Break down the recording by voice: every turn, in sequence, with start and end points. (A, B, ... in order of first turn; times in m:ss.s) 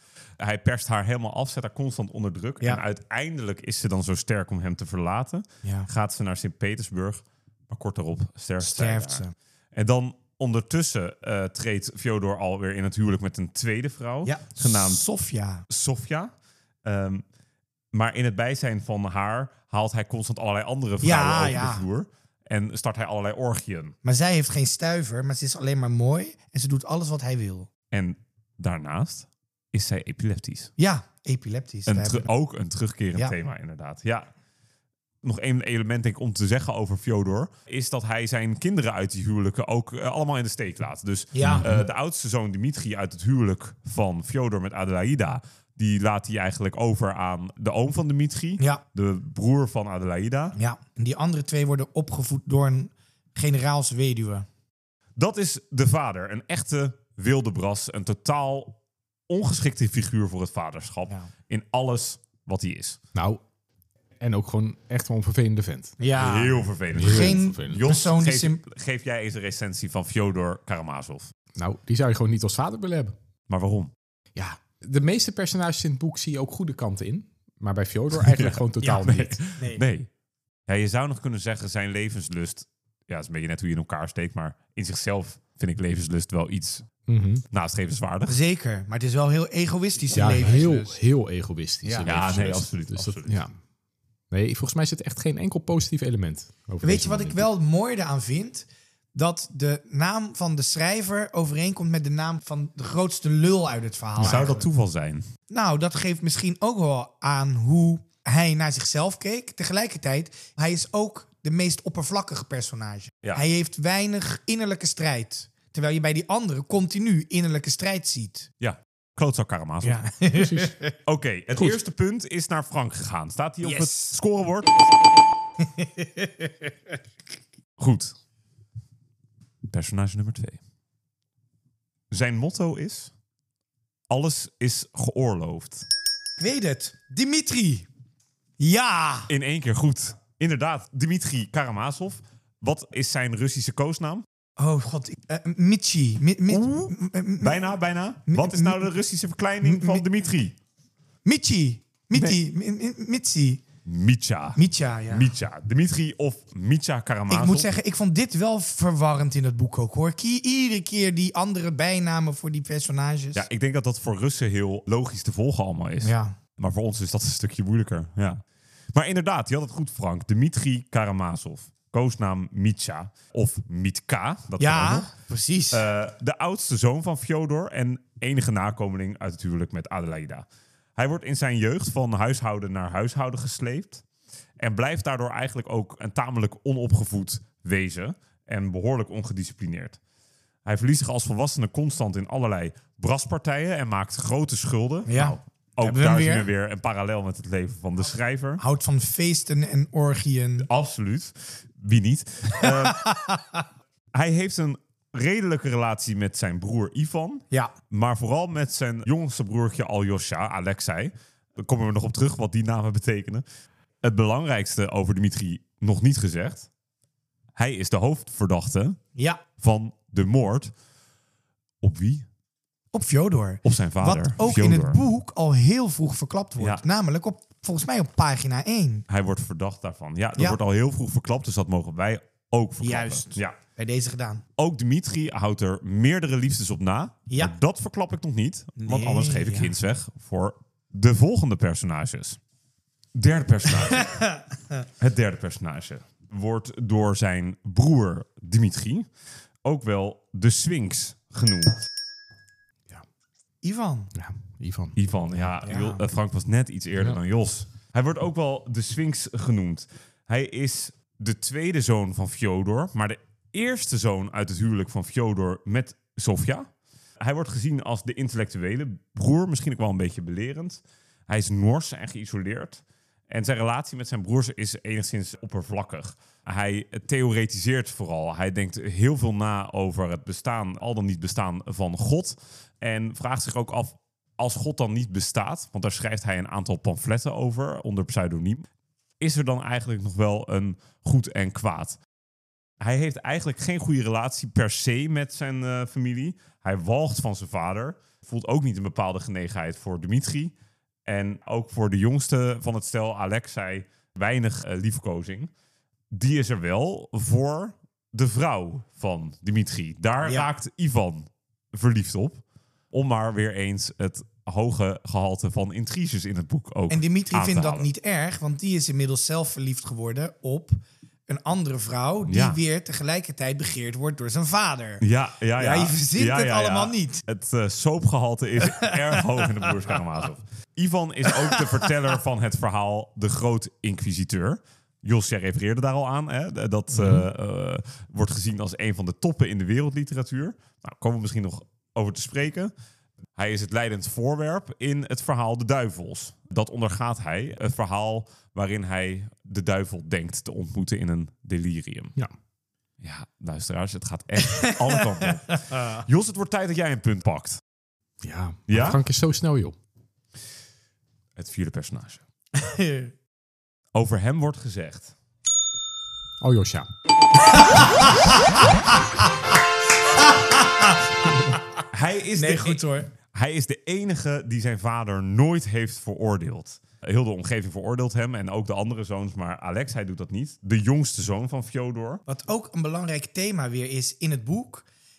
0:00.4-0:15.0 A
0:05.6-0:05.9 B
0:08.6-0:09.3 B
0:14.2-0:15.6 B
0:15.7-0:16.3 A
0:16.8-0:17.2 A
0:17.9-0:24.0 A
0:21.0-0:21.8 B
0:24.0-0:27.7 B
0:27.9-0:30.7 A
0:30.8-0:32.3 B
0:31.9-0:34.3 A
0:35.2-0:50.6 A
0:41.3-0:41.8 B
0:41.4-0:41.8 C
0:50.6-0:54.4 B
0:55.2-0:58.8 A
0:59.3-1:03.0 A
1:03.1-1:03.4 C
1:04.2-1:06.0 C
1:06.0-1:08.6 B
1:06.1-1:11.3 A
1:06.9-1:07.8 C
1:11.6-1:13.2 C
1:13.5-1:13.9 A
1:14.3-1:19.4 C
1:18.2-1:20.1 A
1:20.7-1:26.9 A
1:27.1-1:27.4 C
1:27.5-1:28.4 A
1:28.3-1:31.0 B
1:30.1-1:33.5 C
1:31.8-1:32.2 B
1:32.0-1:33.5 A
1:34.3-1:37.5 C
1:36.8-1:44.7 B
1:44.2-1:45.3 A
1:45.5-1:58.5 B
1:58.6-2:00.0 A
1:59.8-2:00.9 B
2:00.3-2:00.7 C
2:01.0-2:04.9 A
2:03.6-2:04.1 B
2:05.6-2:06.5 B
2:07.8-2:08.1 A
2:09.7-2:10.6 A
2:12.1-2:13.1 A
2:14.1-2:15.8 A
2:16.4-2:17.9 B
2:18.6-2:19.3 B
2:19.3-2:24.2 A
2:24.6-2:27.7 B
2:26.5-2:30.5 A
2:28.2-2:28.9 B
2:29.6-2:30.0 B
2:31.2-2:33.6 B
2:33.8-2:34.6 A
2:34.6-2:35.3 B
2:35.1-2:37.7 A
2:37.3-2:43.4 B
2:43.3-2:48.4 A
2:46.0-2:46.4 B
2:48.9-2:55.1 A
2:54.6-2:55.8 B
2:55.7-3:04.0 A
3:04.6-3:10.0 A
3:10.6-3:18.6 A
3:15.1-3:16.5 B
3:18.6-3:20.7 B
3:20.6-3:23.0 A
3:22.5-3:23.6 B
3:24.1-3:33.4 A
3:34.0-3:36.7 A
3:37.6-3:39.0 A
3:39.2-3:39.4 B
3:39.6-3:40.7 A
3:41.8-3:42.2 A
3:42.9-3:49.0 B
3:43.6-3:45.0 A
3:49.1-3:53.6 A
3:52.8-3:54.4 B
3:54.6-4:02.4 A
3:58.8-3:59.7 B
4:03.1-4:04.2 A
4:03.9-4:04.4 B
4:05.0-4:09.1 A
4:09.6-4:11.8 A
4:13.6-4:14.1 B
4:14.1-4:15.5 C
4:15.0-4:26.7 A
4:15.6-4:16.0 B
4:27.2-4:48.6 A
4:49.2-4:52.0 A
4:52.8-5:00.5 A
5:01.0-5:05.5 A
5:06.1-5:17.9 A
5:10.2-5:10.5 B
5:16.9-5:25.0 B
5:22.3-5:22.6 A
5:25.0-5:42.7 A
5:25.6-5:27.2 B
5:28.6-5:29.7 B
5:31.4-5:31.7 B
5:36.9-5:37.2 C
5:43.3-5:52.1 A
5:53.0-5:57.6 A
5:54.5-5:56.0 B
5:58.2-5:59.8 C
5:58.7-5:59.0 A
6:01.4-6:02.2 A
6:02.5-6:03.1 B
6:03.9-6:05.1 A
6:06.4-6:06.9 C
6:07.5-6:09.3 B
6:10.1-6:11.6 B
6:11.9-6:12.8 A
6:12.4-6:13.1 B
6:13.3-6:22.2 A
6:22.3-6:24.8 B